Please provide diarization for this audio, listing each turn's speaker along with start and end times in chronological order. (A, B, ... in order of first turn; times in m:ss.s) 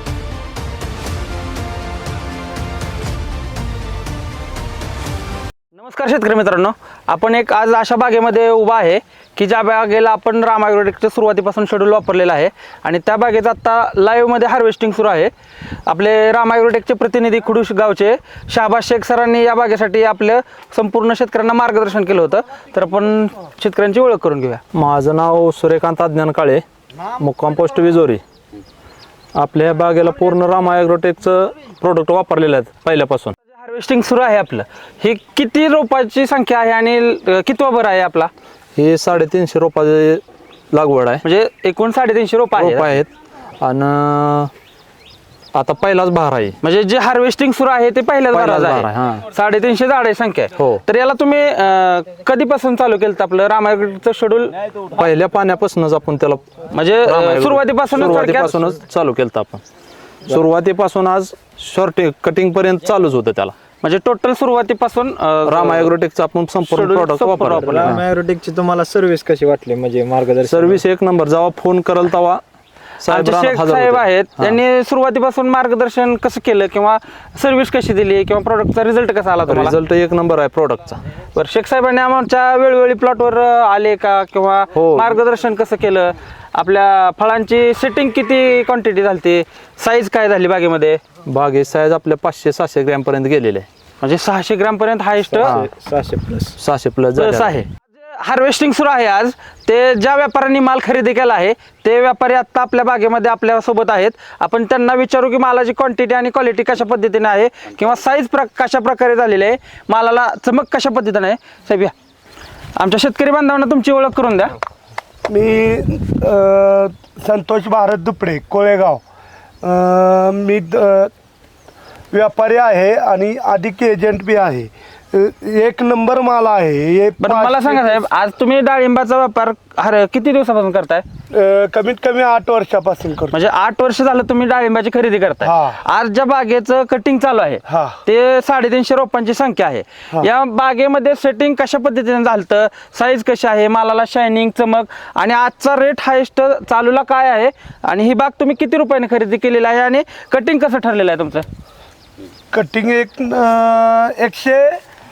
0:05.7-0:15.3 A
0:15.9-0:24.6 A
0:24.7-0:26.6 B
0:27.2-0:28.2 B
0:29.4-0:33.4 B
0:33.5-0:38.3 A
0:38.8-0:41.2 B
0:41.2-0:43.0 A
0:42.6-0:44.5 B
0:45.5-0:46.6 B
0:46.6-0:54.6 A
0:48.3-0:49.2 B
0:50.6-0:50.8 B
0:54.9-0:56.5 B
0:56.7-0:58.7 A
0:57.0-0:59.6 B
1:00.3-1:03.5 B
1:03.8-1:05.9 A
1:05.4-1:08.0 B
1:06.6-1:08.0 A
1:07.6-1:10.8 C
1:10.5-1:12.4 B
1:13.0-1:14.6 B
1:13.1-1:19.8 A
1:19.5-1:21.0 B
1:21.4-1:31.0 A
1:24.8-1:25.2 B
1:31.3-1:33.7 B
1:34.0-1:35.6 A
1:35.2-1:36.6 C
1:36.6-1:37.6 B
1:37.2-1:51.9 A
1:52.8-1:54.6 A
1:55.3-1:59.0 D
1:59.6-2:01.1 D
2:02.1-2:08.0 D
2:07.2-2:11.0 A
2:11.3-2:13.4 D
2:13.3-2:31.5 A
2:15.4-2:15.8 D
2:17.7-2:18.0 D
2:32.5-2:34.8 D